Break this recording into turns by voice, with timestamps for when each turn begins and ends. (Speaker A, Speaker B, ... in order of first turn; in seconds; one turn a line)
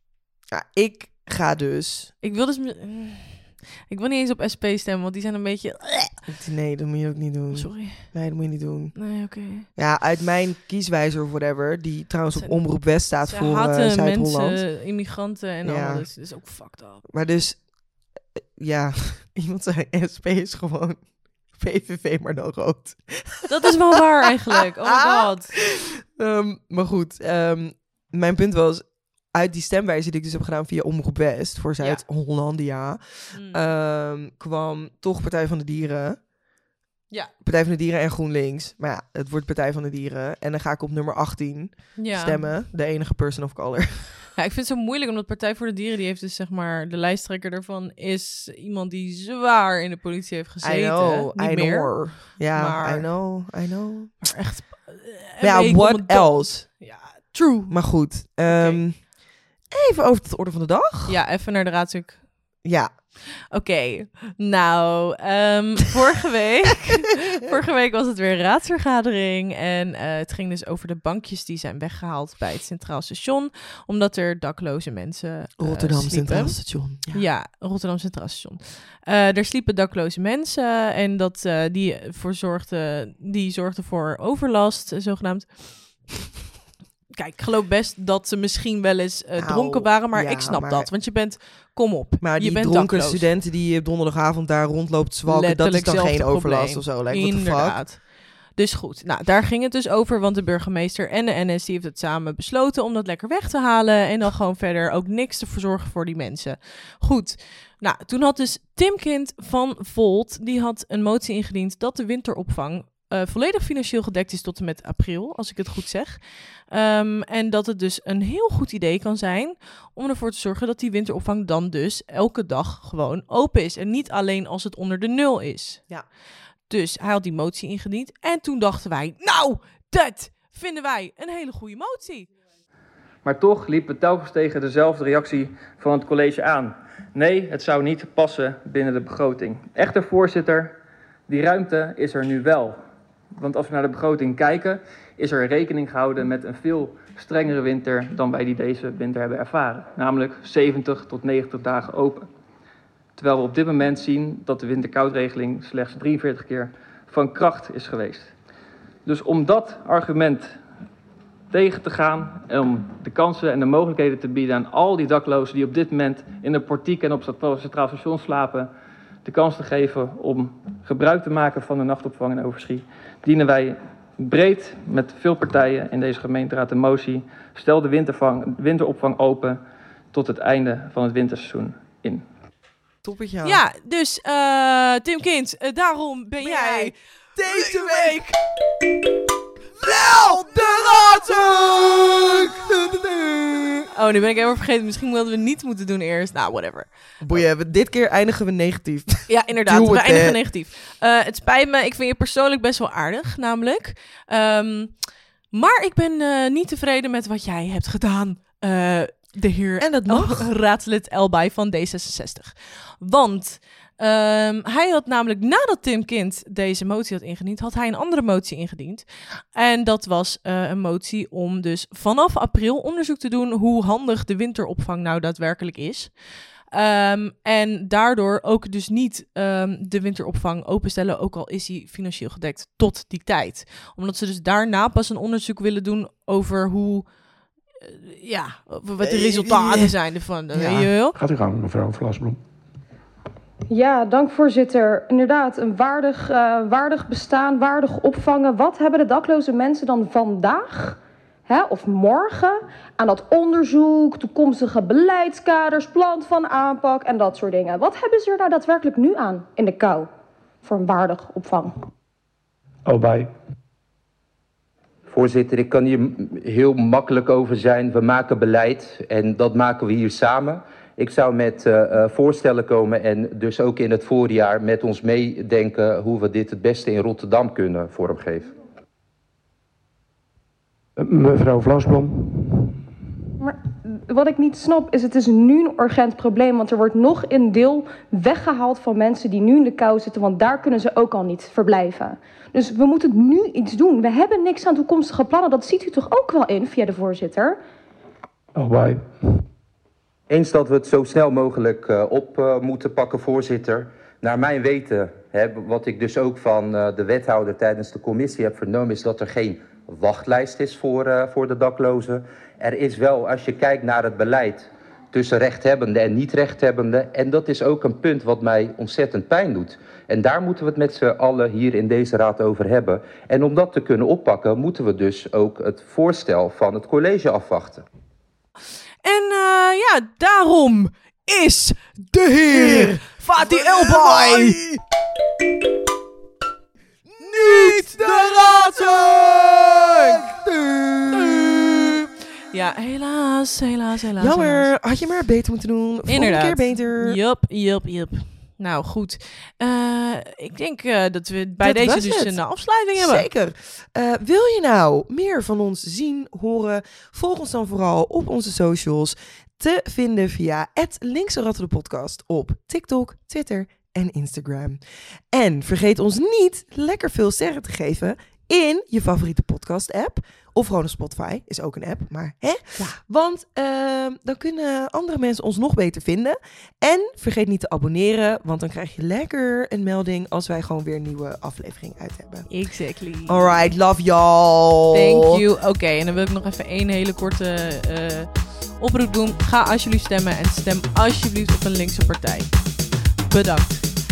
Speaker A: 0.5-2.1
Speaker B: 2.2-6.2
Speaker A: 6.3-8.9
Speaker B: 7.5-8.1
Speaker B: 8.9-9.7
Speaker A: 9.7-14.6
Speaker B: 13.3-17.0
Speaker A: 15.6-16.1
Speaker A: 17.1-17.7
Speaker A: 18.6-36.2
Speaker B: 23.5-25.5
Speaker B: 33.3-33.6
Speaker A: 37.4-44.1
Speaker B: 42.0-42.5
Speaker B: 44.4-53.1
Speaker A: 50.6-54.1
Speaker B: 54.2-57.7
Speaker A: 55.4-56.7
Speaker A: 57.7-59.0
Speaker B: 58.5-58.8
Speaker A: 59.7-61.1
Speaker B: 61.1-62.2
Speaker A: 62.6-62.9
Speaker B: 63.5-85.8
Speaker A: 75.6-77.2
Speaker B: 87.1-93.3
Speaker A: 89.4-90.9
Speaker A: 92.2-97.8
Speaker B: 95.3-125.8
Speaker B: 126.7-132.3
Speaker C: 133.2-140.8
Speaker C: 141.3-142.8
Speaker C: 143.3-152.3
Speaker C: 153.2-158.3
Speaker C: 159.1-160.5
Speaker C: 161.5-168.7
Speaker C: 169.2-179.6
Speaker C: 180.1-182.2
Speaker A: 183.0-183.6
Speaker B: 183.4-188.3
Speaker A: 186.4-188.2
Speaker A: 189.8-193.9
Speaker B: 193.9-197.4
Speaker A: 197.2-200.4
Speaker B: 199.3-205.0
Speaker B: 205.5-226.1
Speaker A: 209.8-210.5
Speaker B: 226.7-237.1
Speaker B: 237.8-241.2
Speaker A: 239.0-239.9
Speaker A: 240.5-240.9
Speaker D: 241.2-242.4
Speaker E: 243.7-260.1
Speaker E: 260.6-261.7
Speaker D: 262.9-263.3
Speaker F: 265.1-278.5
Speaker D: 281.0-282.8
Speaker E: 283.4-297.6
Speaker D: 298.6-299.4
Speaker F: 300.3-327.8
Speaker B: 329.0-334.6
Speaker A: 332.2-334.8
Speaker A: 337.1-342.1
Speaker B: 337.4-340.2
Speaker B: 342.5-344.7
Speaker A: 344.2-347.2
Speaker B: 346.1-353.3
Speaker A: 351.6-352.4
Speaker A: 352.9-382.5
Speaker B: 382.5-383.5
Speaker A: 383.3-385.4
Speaker B: 384.9-392.5
Speaker B: 393.3-393.9